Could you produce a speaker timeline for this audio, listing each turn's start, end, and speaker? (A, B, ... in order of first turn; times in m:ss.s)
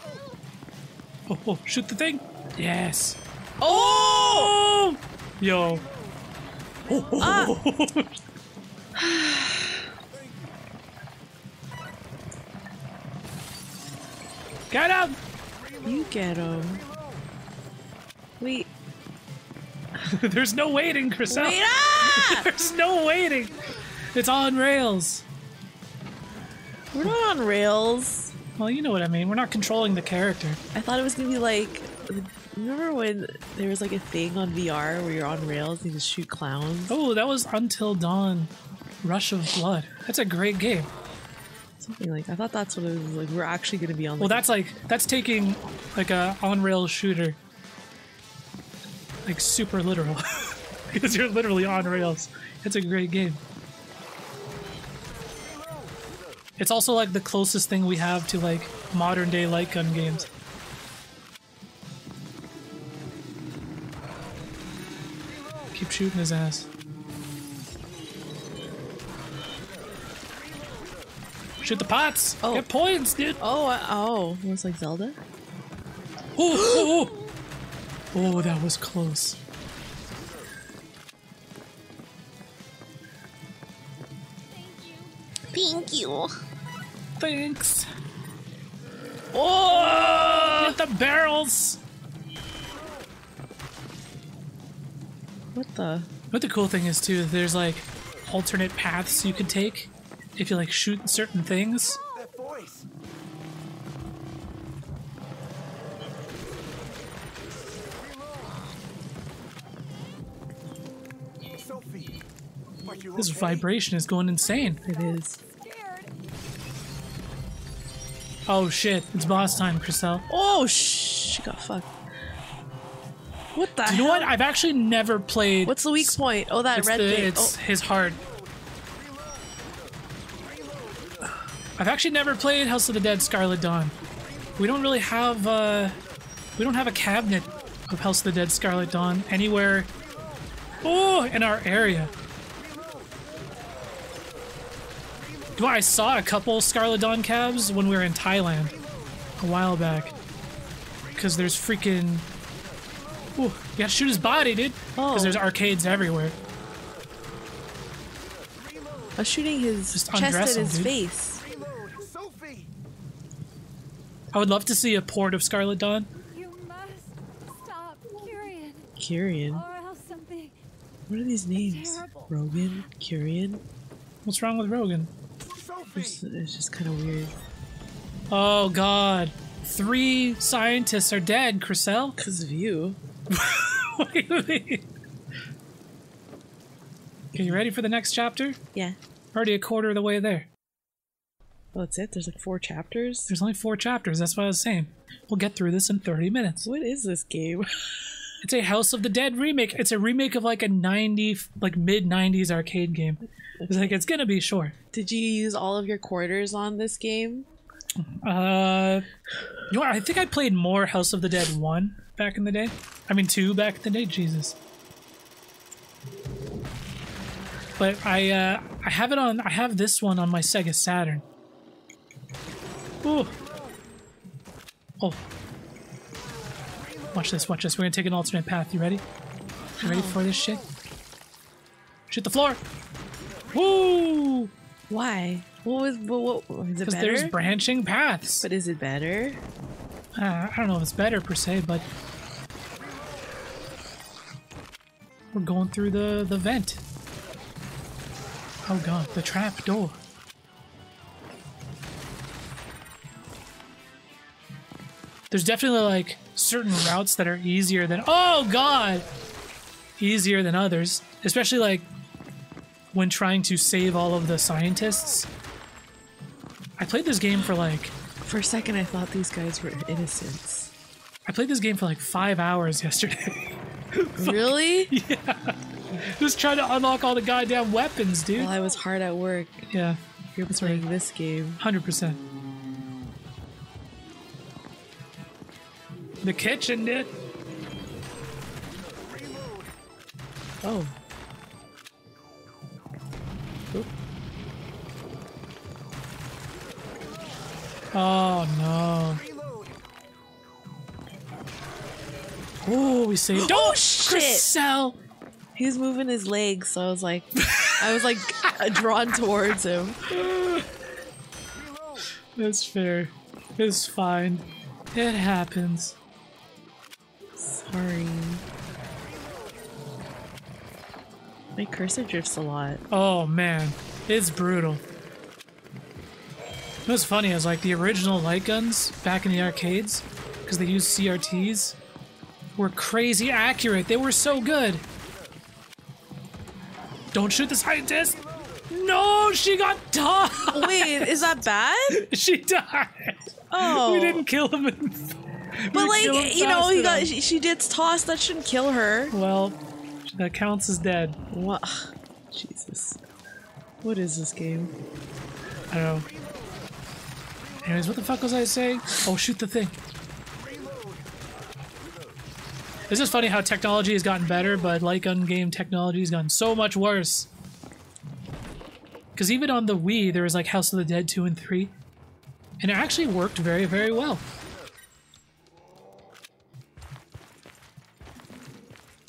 0:01.3-0:05.8 A
0:03.6-0:04.5 B
0:06.9-0:08.1 A
0:07.2-0:07.6 B
0:09.0-0:09.9 B
0:14.7-0:15.2 A
0:15.8-0:16.8 B
0:18.4-0:18.7 B
0:20.0-0:23.6 A
0:21.3-0:22.5 B
0:24.1-0:25.2 A
0:26.9-0:28.4 B
0:28.6-0:30.6 A
0:30.7-0:37.0 B
0:36.9-0:38.5 A
0:39.0-0:40.9 A
0:41.8-0:44.5 B
0:44.2-0:47.4 A
0:49.2-0:53.4 A
0:56.6-1:00.3 A
1:05.7-1:06.7 A
1:11.6-1:13.4 A
1:13.4-1:15.2 B
1:16.4-1:17.1 A
1:18.1-1:19.4 A
1:24.5-1:25.1 C
1:25.5-1:26.3 B
1:27.2-1:27.9 A
1:29.3-1:30.8 B
1:29.9-1:31.8 A
1:35.5-1:36.1 B
1:36.3-1:42.0 A
1:42.2-1:42.9 D
1:51.5-1:52.2 D
1:52.8-1:53.7 D
1:53.2-1:54.8 A
1:54.9-1:55.4 B
1:55.4-1:56.1 C
1:58.5-2:00.2 A
2:00.3-2:01.9 B
2:03.5-2:04.3 B
2:03.8-2:06.2 A
2:05.6-2:07.6 B
2:06.7-2:08.2 A
2:11.8-2:14.0 A
2:14.6-2:16.0 A
2:16.6-2:19.9 A
2:20.8-2:22.1 A
2:25.6-2:28.8 A
2:29.4-2:30.1 A
2:31.2-2:32.3 A
2:33.4-2:36.4 A
2:35.0-2:35.4 B
2:39.2-2:41.4 B
2:39.9-2:40.9 A
2:41.7-2:42.7 D
2:44.3-2:46.1 A
2:46.2-2:48.9 C
2:49.0-2:49.6 B
2:49.5-2:50.6 C
2:51.1-2:53.6 B
2:51.6-2:52.3 C
2:54.2-2:55.1 A
2:55.4-2:56.2 D
2:56.0-2:57.3 B
2:58.3-3:02.2 A
3:02.2-3:03.0 B
3:03.3-3:04.9 A
3:07.3-3:08.6 A
3:09.3-3:10.5 A
3:11.7-3:13.3 B
3:13.3-3:16.7 A
3:16.6-3:17.7 B
3:18.4-3:24.8 A
3:24.9-3:27.5 B
3:28.0-3:29.1 A
3:29.7-3:34.6 A
3:37.8-3:41.2 A
3:43.0-3:43.3 A
3:47.1-3:49.0 A
3:49.8-3:50.2 B
3:49.8-3:50.7 A
3:52.1-3:52.6 A
3:53.5-3:54.5 A
3:54.9-3:57.4 B
3:56.8-3:58.5 A
3:58.4-3:59.4 B
4:00.2-4:01.9 A
4:05.3-4:06.8 A
4:08.7-4:10.0 A
4:15.3-4:19.1 A
4:20.0-4:21.9 A
4:22.9-4:25.3 A
4:26.8-4:28.0 A
4:28.2-4:30.7 B
4:31.3-4:38.5 A
4:34.2-4:34.9 B
4:38.4-4:39.7 B
4:39.7-4:40.0 A
4:40.4-4:41.6 B
4:40.6-4:40.8 A
4:41.6-4:42.2 A
4:46.2-4:47.1 A
4:50.6-4:50.9 B
4:57.9-4:59.2 A
5:02.6-5:05.0 A
5:03.3-5:04.5 B
5:05.6-5:10.0 B
5:07.4-5:07.8 A
5:10.2-5:10.6 A
5:12.4-5:16.0 A
5:17.4-5:18.4 B
5:21.6-5:22.8 B
5:22.9-5:24.8 A
5:26.9-5:31.8 A
5:32.6-5:34.8 A
5:37.1-5:41.2 A
5:40.5-5:42.1 B
5:41.9-5:47.1 A
5:43.5-5:44.2 B
5:45.7-5:49.2 B
5:49.1-5:51.2 A
5:51.3-5:53.0 B
5:53.8-5:54.7 B
5:55.7-5:56.1 A
5:57.6-5:59.8 A
6:02.9-6:07.3 A
6:09.2-6:11.7 A
6:12.6-6:14.3 A